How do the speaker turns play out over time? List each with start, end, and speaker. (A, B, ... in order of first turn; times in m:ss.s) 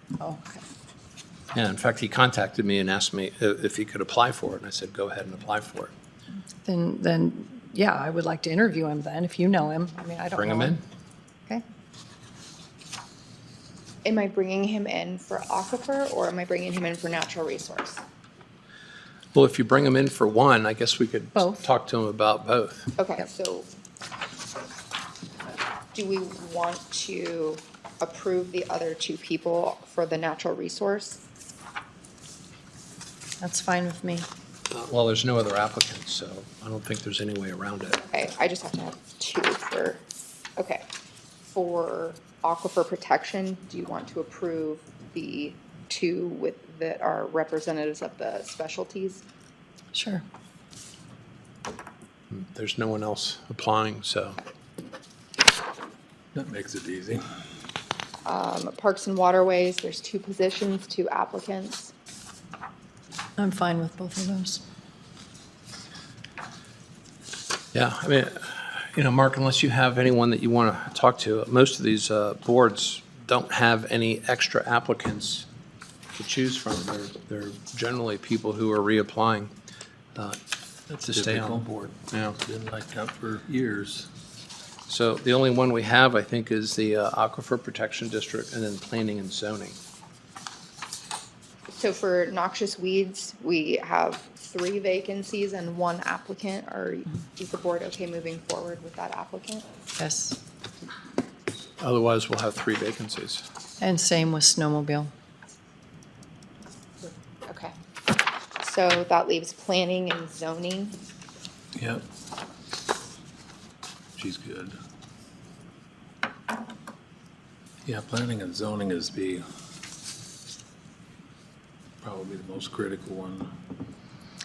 0:00.2-0:00.6 A
0:01.5-0:05.9 B
0:06.6-0:10.8 A
0:10.3-0:10.8 B
0:14.0-0:18.0 C
0:19.3-0:22.9 B
0:21.4-0:21.6 A
0:23.0-0:23.7 C
0:25.9-0:31.2 C
0:33.4-0:34.3 A
0:34.7-0:38.0 B
0:38.1-0:40.0 C
0:40.6-0:40.8 C
0:41.4-0:49.2 C
0:49.9-0:50.2 A
0:52.3-0:54.4 B
0:56.3-0:57.2 D
0:58.2-1:01.9 C
1:03.4-1:04.6 A
1:07.7-1:15.5 B
1:16.1-1:19.5 B
1:20.9-1:24.1 D
1:21.0-1:22.4 B
1:24.9-1:29.8 B
1:31.7-1:39.6 C
1:40.0-1:40.4 A
1:41.8-1:43.4 B
1:43.8-1:45.1 A
1:47.0-1:47.7 C
1:48.6-1:51.0 C
1:51.8-1:52.0 D
1:54.2-1:54.8 D
1:57.8-1:59.4 D
2:02.0-2:03.5 D